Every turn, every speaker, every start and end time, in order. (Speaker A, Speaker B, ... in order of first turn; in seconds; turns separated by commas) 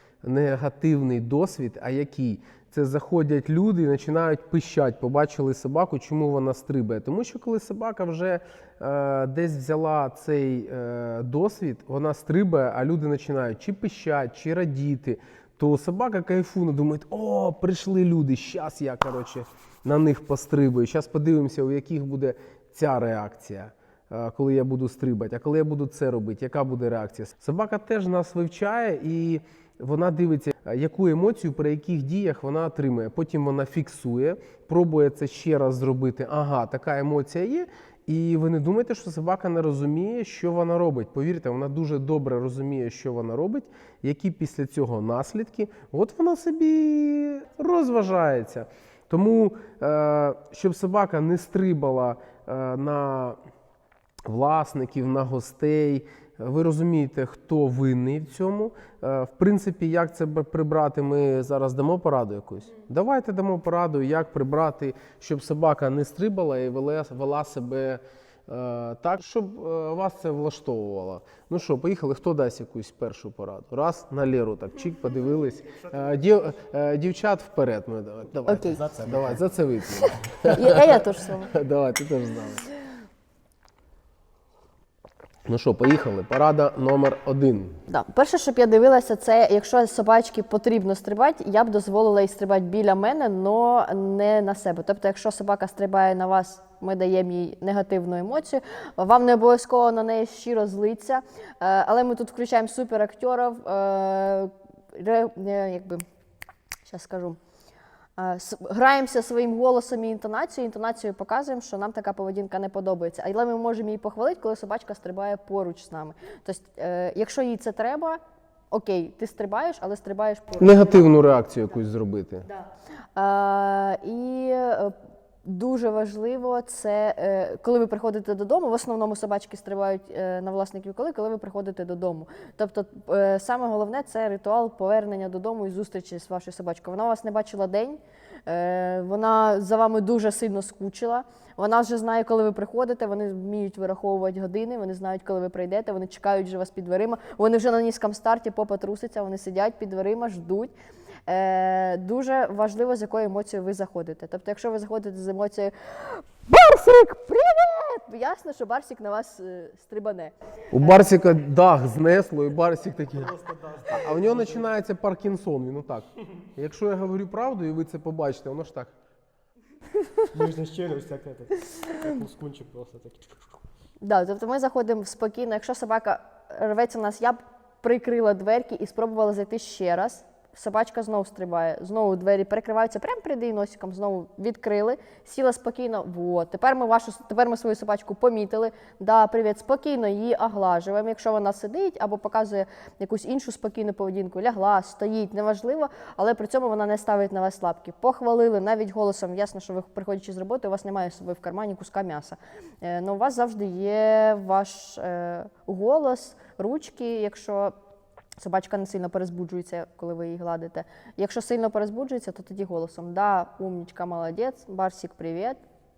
Speaker A: 0.2-53.4, Speaker A: 54.3-82.7, Speaker B: 78.5-78.8, Speaker C: 78.7-79.5, Speaker B: 80.0-81.5, Speaker A: 85.5-87.8, Speaker B: 87.9-106.0, Speaker B: 106.9-107.4, Speaker B: 108.2-118.2, Speaker B: 118.7-121.1, Speaker A: 120.6-122.5, Speaker B: 122.5-150.7, Speaker B: 151.3-161.1, Speaker A: 160.7-163.3, Speaker C: 163.1-164.7, Speaker A: 163.9-168.9, Speaker C: 170.3-173.6, Speaker B: 174.0-207.7, Speaker B: 208.4-215.6